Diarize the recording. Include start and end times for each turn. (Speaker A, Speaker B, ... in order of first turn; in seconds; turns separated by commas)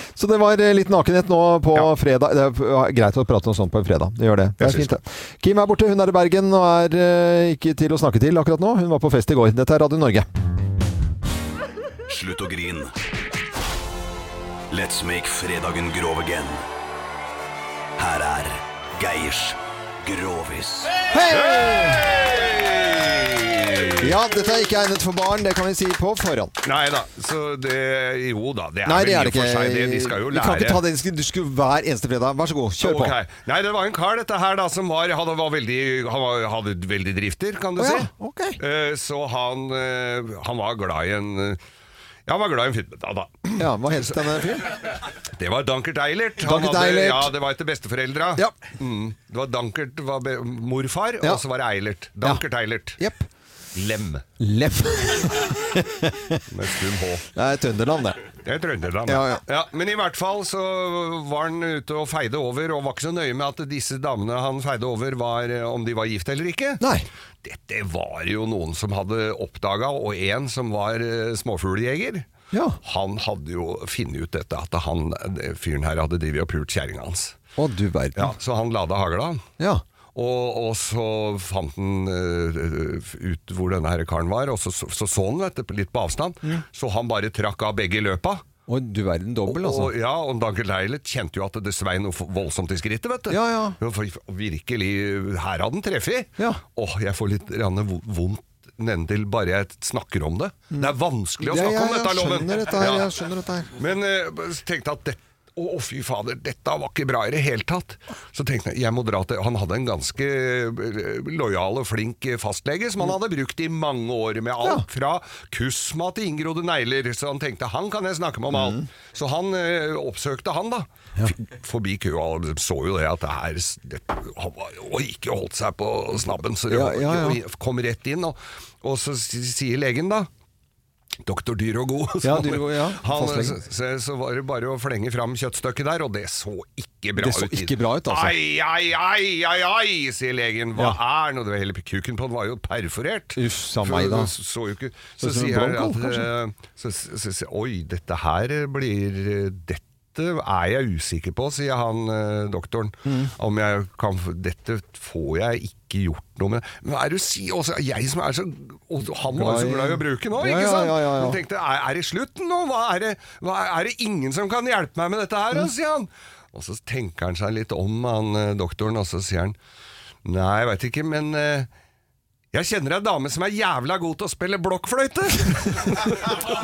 Speaker A: 0.2-10.3, Speaker B: 4.6-4.9, Speaker C: 12.1-12.9, Speaker C: 14.7-16.6, Speaker C: 18.0-21.0, Speaker A: 21.1-22.0, Speaker B: 21.3-24.1, Speaker A: 24.0-26.6, Speaker B: 26.6-30.8, Speaker A: 28.9-33.2, Speaker B: 32.8-41.6, Speaker A: 37.8-38.6, Speaker B: 42.3-53.0, Speaker A: 43.6-44.7, Speaker A: 46.4-47.3, Speaker A: 53.0-53.3, Speaker B: 53.8-54.2, Speaker A: 54.4-56.4, Speaker B: 56.5-57.3, Speaker A: 57.4-58.2, Speaker B: 58.4-66.8, Speaker A: 59.1-59.4, Speaker A: 66.8-67.1, Speaker B: 67.4-72.3, Speaker A: 72.5-72.8, Speaker B: 72.8-77.4, Speaker A: 77.6-78.4, Speaker B: 78.2-79.4, Speaker B: 80.2-88.4, Speaker A: 88.7-89.9, Speaker B: 89.5-103.1, Speaker A: 93.3-93.8, Speaker A: 101.4-103.7, Speaker B: 103.8-130.3, Speaker A: 118.5-118.8, Speaker A: 126.7-127.4, Speaker B: 131.2-169.6, Speaker A: 132.2-133.6, Speaker A: 137.2-138.4, Speaker A: 143.4-144.3, Speaker A: 145.2-146.3, Speaker A: 153.1-153.3, Speaker A: 159.3-161.4, Speaker B: 170.2-171.7, Speaker B: 172.5-176.4